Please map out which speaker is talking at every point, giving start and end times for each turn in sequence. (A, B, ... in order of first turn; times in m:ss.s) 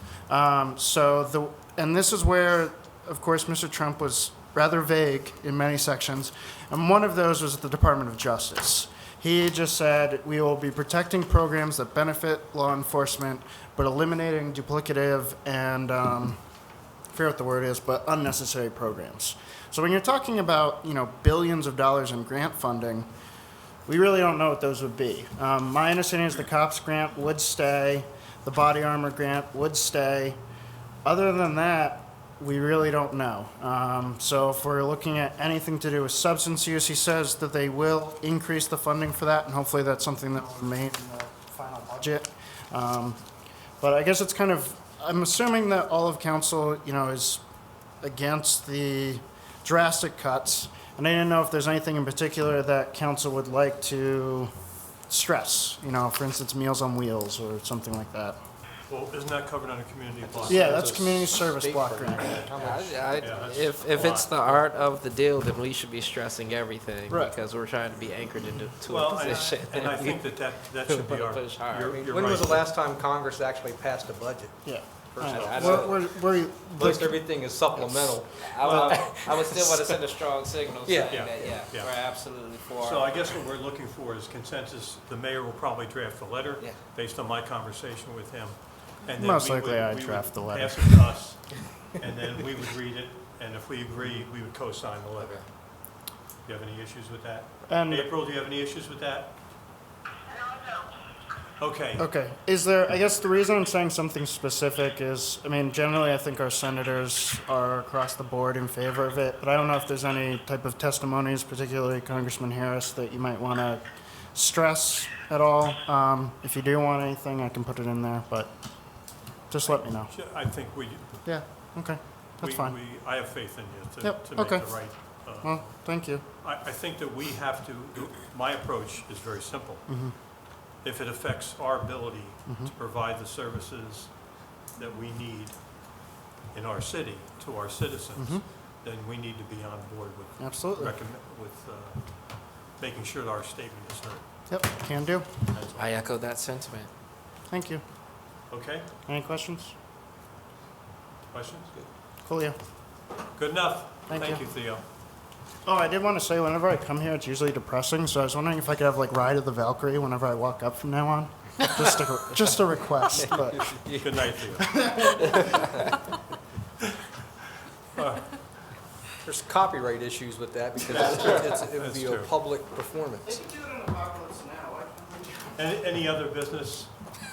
0:00.3-0:16.4 A
0:17.1-0:23.1 A
0:23.9-0:30.4 A
0:31.0-0:43.2 A
0:43.8-0:47.4 A
0:48.0-0:54.5 A
0:55.1-0:58.4 A
0:58.9-1:00.7 B
1:00.2-1:03.8 C
1:00.4-1:02.5 A
1:02.6-1:11.9 D
1:03.1-1:04.6 B
1:07.1-1:07.4 A
1:08.8-1:12.6 B
1:11.9-1:16.0 C
1:14.6-1:17.2 A
1:15.2-1:16.0 D
1:15.3-1:15.7 B
1:16.8-1:19.9 C
1:17.8-1:23.1 D
1:18.6-1:19.3 B
1:20.8-1:21.6 C
1:21.1-1:22.0 B
1:22.7-1:35.6 B
1:29.2-1:31.1 A
1:36.4-1:39.3 B
1:37.7-1:38.1 A
1:41.6-1:42.1 B
1:42.0-1:53.8 A
1:54.3-1:58.5 A
1:59.5-2:00.1 A
1:59.6-2:01.4 B
2:01.2-2:02.8 A
2:02.4-2:10.1 B
2:04.0-2:06.2 A
2:09.9-2:10.2 A
2:10.8-2:24.4 B
2:12.5-2:12.7 A
2:18.2-2:18.4 A
2:20.4-2:20.9 A
2:24.5-2:25.3 A
2:25.5-2:26.0 B
2:25.8-2:26.9 D
2:27.5-2:27.8 A
2:28.5-2:28.9 B
2:29.1-2:29.7 A
2:31.3-2:31.8 B
2:32.2-2:32.6 A
2:33.3-2:34.8 B
2:34.1-2:34.4 A
2:35.6-2:43.7 A
2:43.6-2:44.0 D
2:43.9-2:45.2 B
2:44.7-2:45.2 A
2:45.3-2:45.7 D
2:48.0-2:48.4 B
2:49.2-2:53.4 C
2:50.9-2:52.3 B
2:53.2-2:55.6 A
2:55.6-2:57.1 B